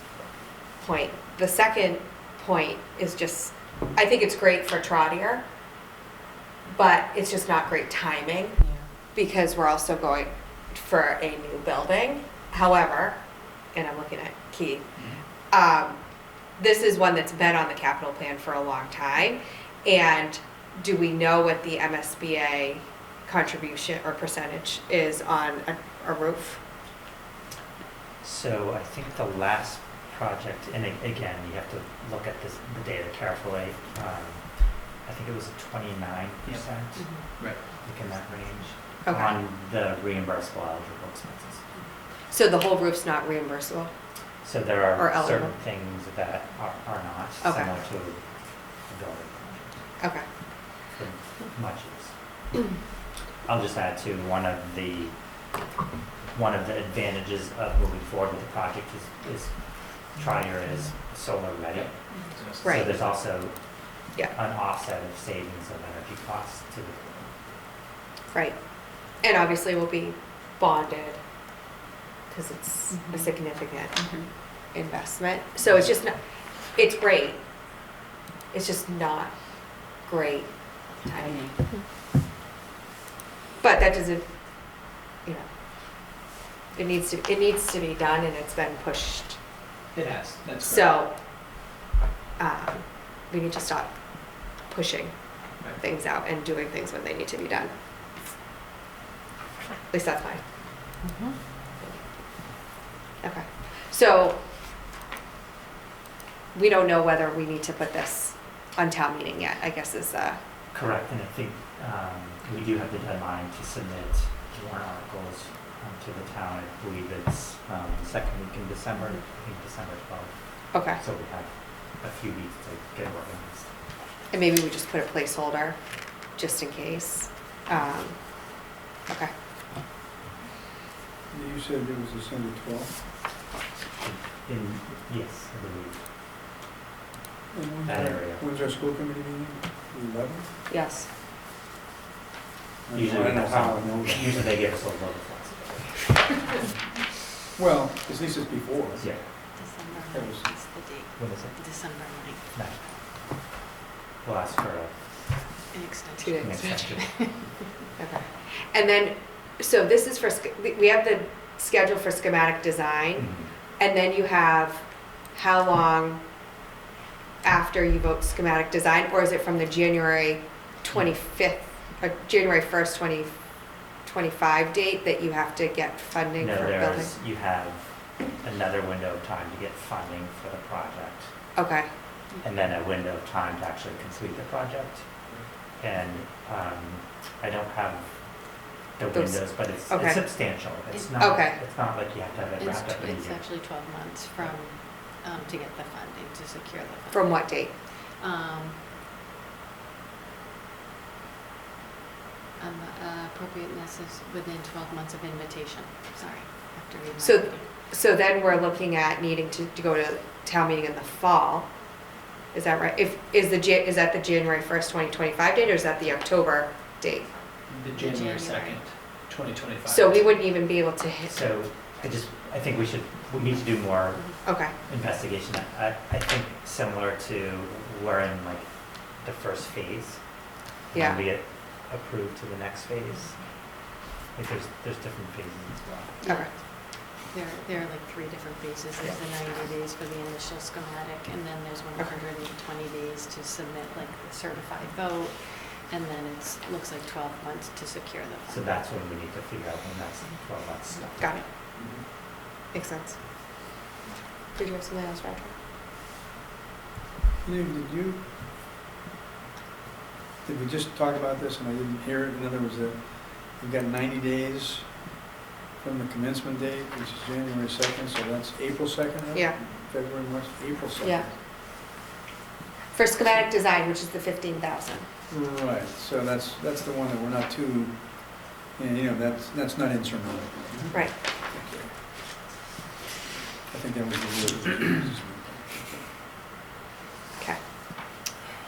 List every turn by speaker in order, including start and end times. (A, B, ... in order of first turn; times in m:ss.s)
0:00.8-0:05.5 A
0:06.7-0:08.6 A
0:09.1-0:14.9 A
0:15.5-0:16.0 A
0:16.6-0:26.6 A
0:28.2-0:41.6 B
0:37.0-0:37.6 C
0:37.2-0:37.7 D
0:39.0-0:39.3 A
0:42.3-0:43.9 A
0:44.4-0:49.8 B
0:45.0-0:45.5 A
0:47.4-0:47.7 A
0:50.0-0:50.2 A
0:50.9-0:52.1 B
0:53.4-0:55.6 B
0:56.3-1:07.3 B
1:01.7-1:03.1 D
1:02.6-1:02.9 A
1:08.3-1:11.2 A
1:12.3-1:17.9 A
1:18.5-1:21.8 A
1:23.6-1:26.2 A
1:26.7-1:29.4 A
1:29.9-1:31.0 D
1:30.6-1:31.2 A
1:32.4-1:37.7 A
1:39.9-1:40.4 A
1:41.0-1:41.4 C
1:41.8-1:42.4 A
1:43.2-1:44.4 A
1:46.5-1:50.4 A
1:50.7-2:03.7 B
2:00.7-2:01.0 A
2:04.3-2:05.8 A
2:06.3-2:09.3 A
2:11.3-2:13.0 E
2:14.0-2:16.0 B
2:17.5-2:20.5 E
2:17.8-2:18.4 B
2:20.7-2:21.1 A
2:22.9-2:24.4 E
2:22.9-2:26.7 B
2:27.6-2:29.2 E
2:29.0-2:29.5 B
2:29.6-2:32.9 C
2:30.1-2:30.5 E
2:31.2-2:32.9 B
2:34.2-2:35.6 B
2:35.7-2:37.6 C
2:36.2-2:36.5 A
2:36.4-2:37.6 B
2:38.0-2:46.3 A
2:43.2-2:43.5 B
2:47.4-2:57.1 A
2:56.4-3:01.3 B
3:01.6-3:01.9 A
3:02.4-3:13.4 B
3:09.1-3:10.6 A
3:11.2-3:11.6 A
3:12.6-3:18.9 C
3:17.1-3:17.7 A
3:22.6-3:27.7 C
3:27.2-3:37.3 A
3:37.7-3:40.4 D
3:38.0-3:38.8 C
3:39.9-3:41.4 A
3:41.3-3:50.2 B
3:44.4-3:44.7 A
3:50.9-3:53.8 B
3:50.9-3:51.2 A
3:54.3-3:56.2 B
3:56.2-3:56.5 A
3:56.2-4:08.8 C
4:08.5-4:11.5 B
4:10.9-4:11.4 C
4:11.2-4:11.4 A
4:11.8-4:12.0 D
4:12.7-4:13.2 A
4:14.5-4:15.6 A
4:17.4-4:18.3 E
4:20.4-4:25.2 E
4:25.8-4:31.4 E
4:31.0-4:31.3 A
4:32.9-4:35.1 A
4:35.3-4:41.8 E
4:43.7-4:46.0 E